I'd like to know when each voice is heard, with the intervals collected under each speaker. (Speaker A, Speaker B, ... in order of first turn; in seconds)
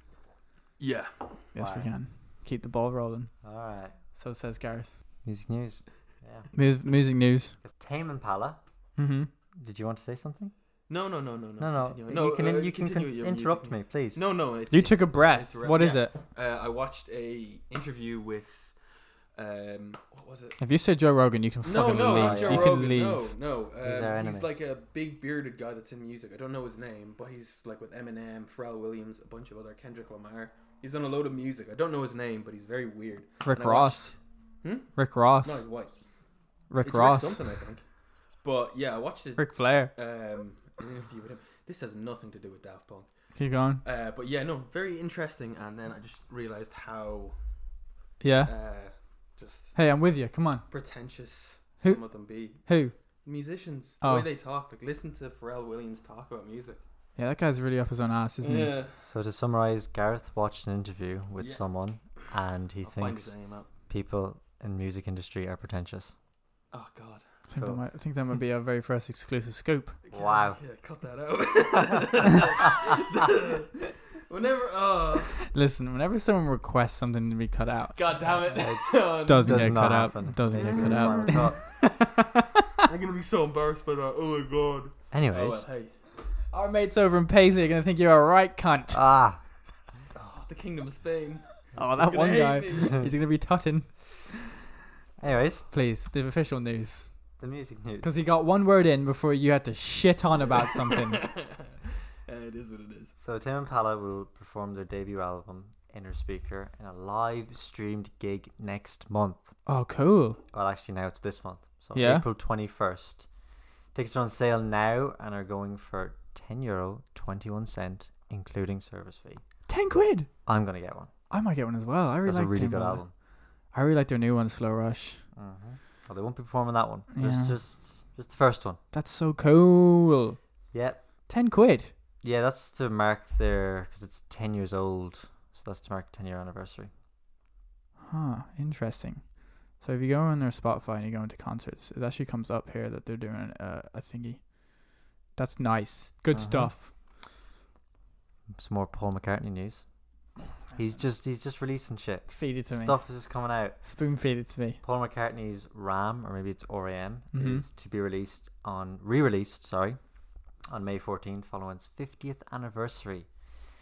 Speaker A: 0.8-1.1, 10.9-18.7, 19.4-20.6, 21.6-35.9, 36.8-37.8, 38.4-43.1, 43.8-47.4, 48.5-49.8, 50.7-52.6, 53.2-56.8, 58.4-59.0, 61.4-61.6, 62.8-63.7, 66.7-67.2, 70.1-75.4, 78.0-79.9, 80.5-81.4, 82.8-85.9, 90.1-93.1, 100.9-103.1
Speaker B: 1.5-3.3, 4.2-4.9, 6.5-7.5, 9.0-9.3, 14.7-16.1, 20.6-23.3, 33.4-34.1, 35.0-35.6, 36.7-37.4, 39.4-39.9, 43.4-43.8, 48.2-48.5, 49.8-50.6, 52.7-52.9, 54.0-54.3, 57.2-58.7, 67.5-70.0, 75.4-78.0, 79.2-82.7, 86.5-89.0, 91.8-94.4, 95.7-97.1, 98.0-101.3, 109.7-110.4, 112.0-112.2, 119.7-120.3, 121.3-123.0, 123.7-125.2, 127.1-127.5, 128.9-130.4, 131.3-131.9, 138.1-144.5, 145.4-146.9, 152.3-152.9, 153.8-154.8, 157.3-157.6
Speaker C: 1.6-1.9, 3.4-4.0, 5.2-6.5, 7.6-8.6, 9.6-10.5, 11.6-14.2, 21.9-22.8, 23.8-24.5, 59.0-63.3, 63.9-66.2, 70.1-70.6, 78.6-81.6, 85.1-85.6, 88.9-89.4, 95.2-95.7, 97.4-98.1, 103.2-109.5, 110.5-113.3, 113.9-119.4, 120.5-121.1, 122.2-123.1, 125.3-128.8, 130.7-131.0, 132.2-136.9, 146.3-146.7, 148.5-149.8, 150.8-153.8, 154.8-160.0, 160.7-163.3